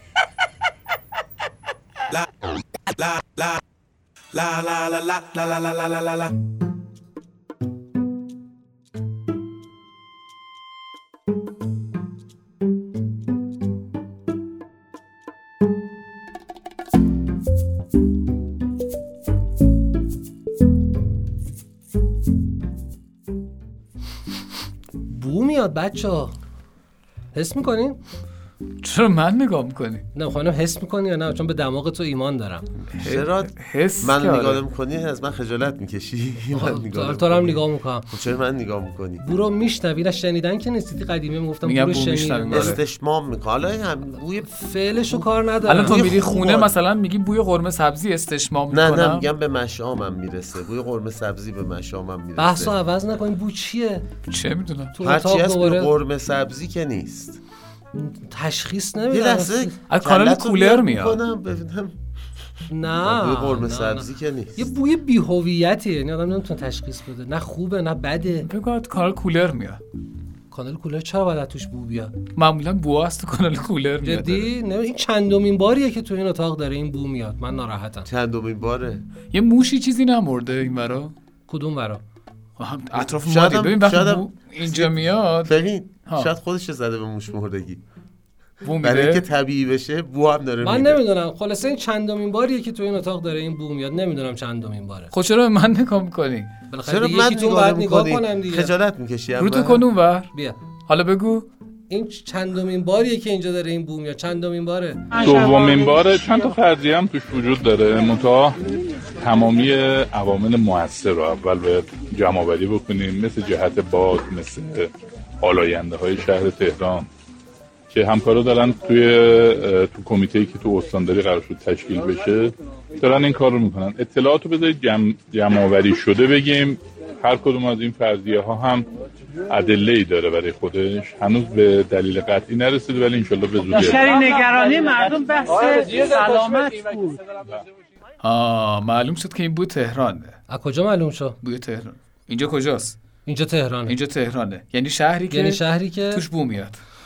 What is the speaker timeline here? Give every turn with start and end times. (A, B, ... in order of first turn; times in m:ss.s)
0:04.3-0:06.3 A
0:25.0-0:26.4 B
0:27.3-0:28.0 B
0:28.8-0:30.0 C
0:30.1-0:32.7 B
0:33.0-0:39.2 D
0:33.0-0:34.6 C
0:36.5-0:38.1 B
0:39.2-0:42.8 B
0:41.6-0:42.8 C
0:42.5-0:46.7 D
0:44.5-0:46.1 B
0:45.7-0:49.2 C
0:48.7-0:52.7 D
0:52.4-0:54.0 B
0:54.3-0:54.9 C
0:54.9-0:55.9 B
0:55.0-0:57.4 D
0:57.9-0:59.7 B
0:59.1-1:02.0 D
0:59.9-1:01.2 C
1:02.7-1:04.0 B
1:03.0-1:04.7 D
1:04.6-1:08.5 B
1:08.4-1:09.8 C
1:10.5-1:12.1 B
1:12.4-1:14.5 C
1:14.0-1:18.1 B
1:18.0-1:19.0 D
1:19.3-1:21.1 C
1:21.5-1:22.0 B
1:22.6-1:25.5 C
1:22.9-1:27.8 D
1:28.6-1:29.2 C
1:28.8-1:31.0 D
1:30.6-1:35.1 B
1:35.1-1:36.5 C
1:36.7-1:38.7 B
1:36.8-1:39.8 D
1:39.4-1:40.3 C
1:40.9-1:41.4 C
1:41.9-1:45.2 B
1:45.2-1:48.6 E
1:49.2-1:54.9 E
1:55.4-1:57.1 E
1:57.9-2:08.9 E
2:09.5-2:14.1 E
2:13.9-2:16.8 F
2:18.2-2:20.4 C
2:20.5-2:21.4 B
2:21.4-2:23.0 C
2:23.2-2:24.0 B
2:23.9-2:26.8 C
2:25.3-2:26.2 B